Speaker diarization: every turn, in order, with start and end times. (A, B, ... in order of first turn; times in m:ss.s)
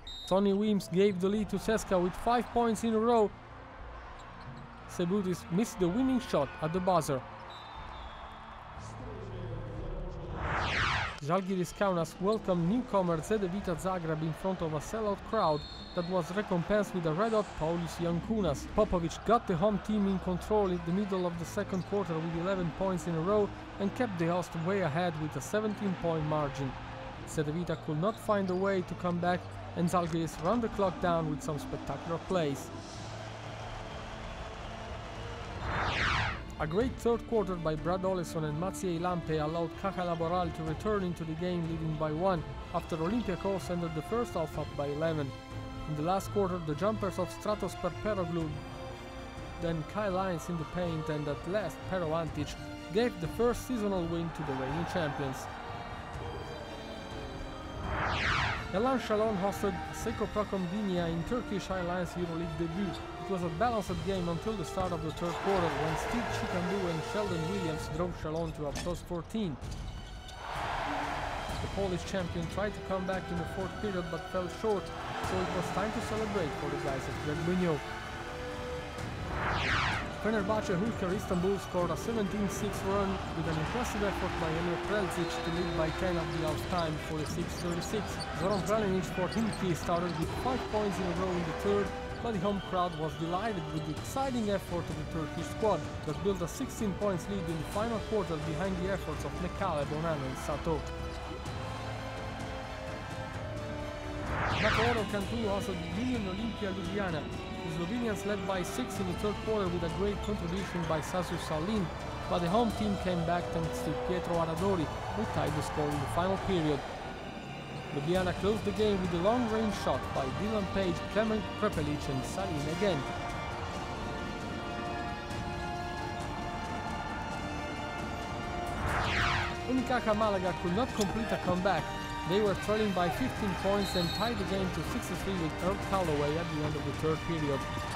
0:00.2-0:03.3 A
0:04.8-0:07.2 A
0:11.2-0:32.7 A
0:36.6-0:48.6 A
0:49.6-0:55.5 A
0:58.7-1:09.6 A
1:11.6-1:17.8 A
1:20.2-1:40.9 A
1:44.6-1:56.8 A
1:57.9-2:03.1 A
2:09.6-2:17.7 A